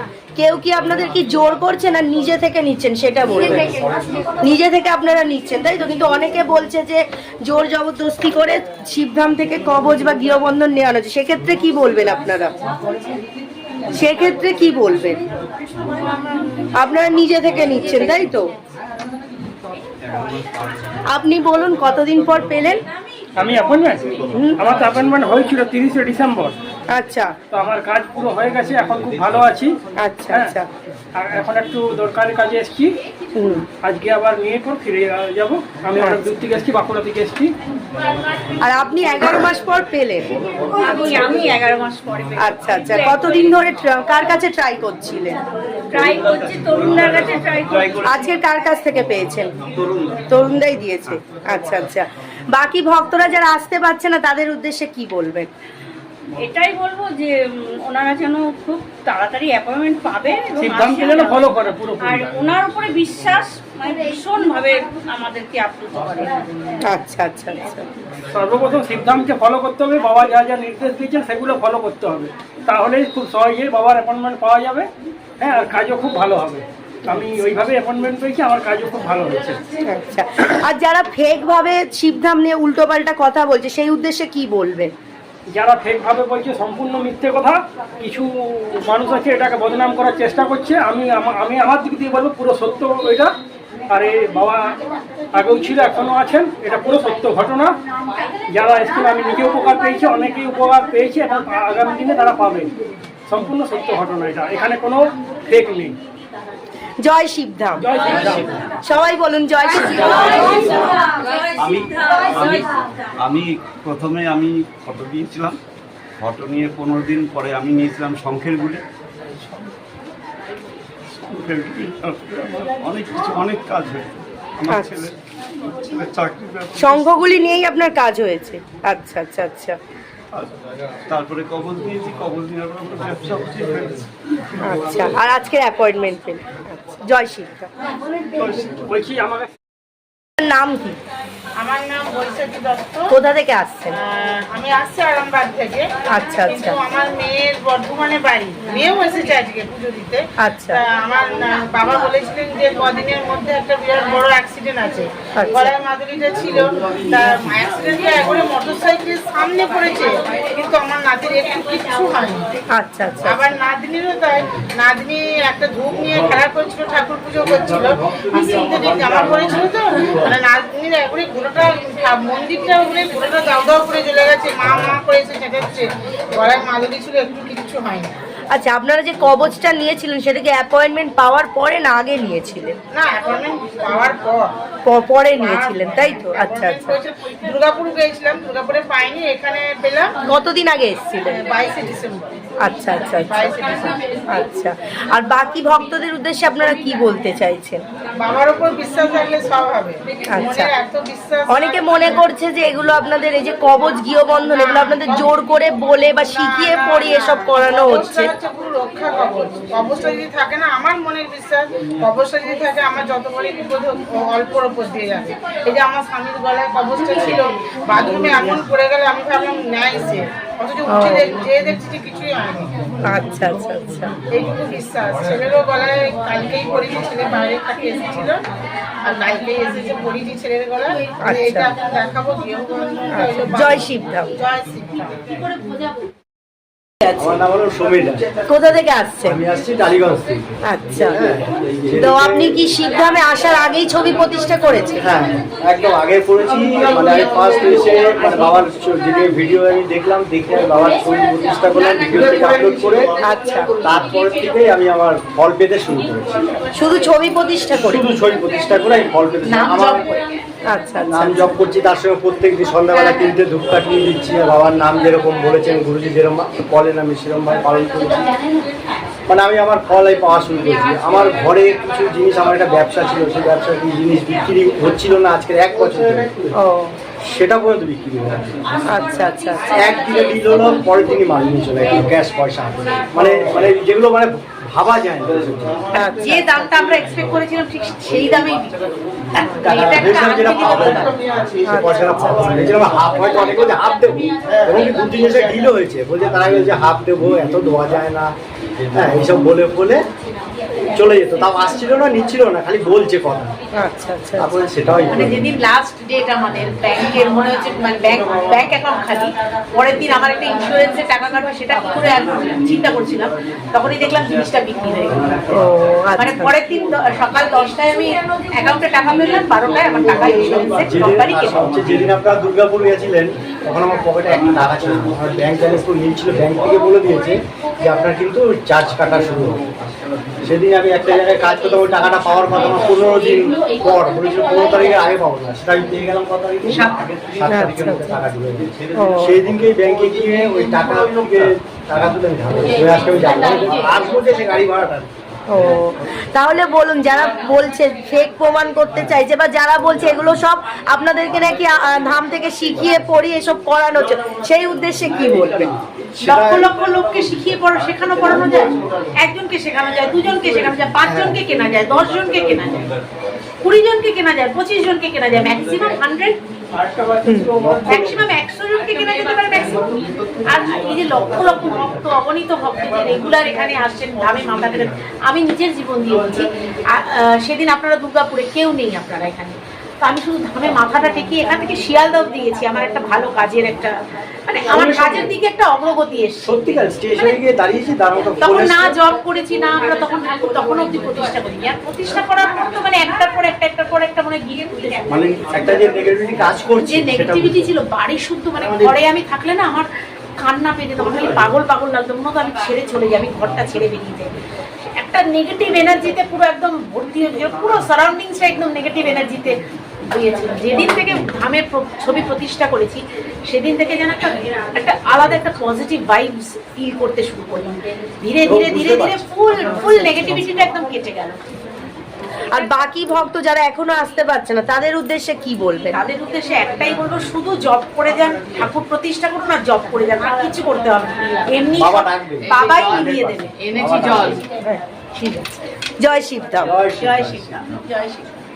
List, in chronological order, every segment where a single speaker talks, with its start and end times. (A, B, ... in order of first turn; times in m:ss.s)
0:00.4-0:03.8 A
0:04.4-0:12.5 A
0:13.9-0:15.2 A
0:16.8-0:18.5 A
0:21.1-0:22.8 A
0:23.4-0:26.5 B
0:24.3-0:24.6 A
0:26.9-0:27.3 A
0:27.5-0:29.7 B
0:30.0-0:30.7 A
0:31.2-0:32.9 B
0:33.4-0:33.6 A
0:33.8-0:37.5 B
0:36.0-0:36.2 A
0:38.6-0:40.3 A
0:40.7-0:43.5 C
0:42.4-0:45.4 A
0:45.9-0:48.0 C
0:45.9-0:48.2 D
0:48.0-0:49.5 A
0:49.7-0:50.2 D
0:50.3-0:55.5 A
0:56.4-1:06.4 C
1:00.6-1:02.2 B
1:06.8-1:07.9 A
1:08.3-1:14.9 B
1:15.4-1:19.6 B
1:19.9-1:24.9 A
1:25.5-1:33.3 B
1:33.9-1:34.8 B
1:35.4-1:37.7 B
1:38.5-1:42.7 B
1:43.3-1:45.9 B
1:47.0-1:47.8 A
1:47.8-1:48.5 B
1:48.8-1:50.7 A
1:50.6-1:50.8 C
1:51.6-1:52.7 D
1:53.2-1:55.6 D
1:56.2-1:58.8 D
2:01.3-2:05.1 D
2:04.7-2:05.1 A
2:05.9-2:07.0 D
2:06.8-2:09.8 A
2:11.1-2:14.0 D
2:14.6-2:17.7 A
2:18.4-2:19.5 B
2:20.4-2:21.0 A
2:21.6-2:23.1 E
2:23.1-2:24.0 A
2:23.9-2:25.9 E
2:26.1-2:26.8 A
2:26.4-2:42.5 E
2:30.4-2:30.8 A
2:35.4-2:35.7 A
2:42.7-2:43.5 A
2:43.2-2:58.1 E
2:58.5-3:02.8 A
3:02.9-3:04.5 E
3:04.8-3:07.0 A
3:05.4-3:10.2 E
3:10.2-3:11.4 A
3:11.2-3:12.3 E
3:12.6-3:13.5 A
3:13.2-3:14.0 E
3:14.3-3:17.8 A
3:18.2-3:22.2 E
3:20.3-3:20.7 A
3:21.5-3:28.3 A
3:24.4-3:25.3 E
3:26.3-3:42.7 E
3:40.9-3:41.3 A
3:43.1-3:44.1 A
3:44.3-3:48.4 E
3:49.0-3:55.1 E
3:51.2-3:51.7 A
3:53.1-3:54.3 A
3:57.2-3:58.2 F
3:58.5-3:59.4 A
3:59.3-4:02.6 F
4:00.6-4:01.2 A
4:02.0-4:05.0 A
4:05.0-4:13.1 F
4:13.2-4:13.7 A
4:13.8-4:16.3 F
4:16.8-4:18.0 A
4:17.8-4:20.0 F
4:19.4-4:20.2 G
4:20.7-4:21.6 A
4:21.0-4:28.2 F
4:29.3-4:36.3 F
4:36.6-4:36.9 A
4:37.2-4:38.5 F
4:38.9-4:39.7 A
4:39.6-4:45.8 F
4:43.2-4:43.6 A
4:45.9-4:46.6 A
4:46.0-4:48.8 G
4:49.4-4:51.1 G
4:49.5-4:49.8 A
4:49.6-4:51.1 F
4:51.7-4:52.4 A
4:51.8-4:58.3 F
4:58.9-5:00.0 F
5:00.9-5:03.5 F
5:03.8-5:04.5 A
5:04.4-5:05.4 F
5:05.1-5:15.4 G
5:15.5-5:16.5 A
5:16.2-5:21.7 G
5:20.2-5:29.6 F
5:30.4-5:45.0 F
5:36.7-5:37.0 G
5:37.5-5:38.2 A
5:39.0-5:39.4 A
5:45.5-5:55.7 A
5:56.2-6:02.9 G
5:56.2-5:56.6 F
6:03.6-6:06.4 G
6:07.2-6:07.5 A
6:07.5-6:08.1 F
6:07.8-6:09.9 G
6:10.5-6:23.9 G
6:24.5-6:27.4 G
6:24.7-6:25.3 F
6:26.5-6:28.9 F
6:28.4-6:35.8 G
6:35.1-6:37.7 F
6:36.8-6:39.9 G
6:38.6-6:38.9 F
6:40.4-6:44.3 G
6:45.0-6:49.6 G
6:50.1-7:01.4 G
6:58.5-6:59.2 F
7:02.5-7:06.0 A
7:05.9-7:14.3 G
7:11.8-7:12.5 F
7:13.7-7:14.4 F
7:14.6-7:16.7 A
7:16.6-7:17.4 F
7:16.9-7:18.2 G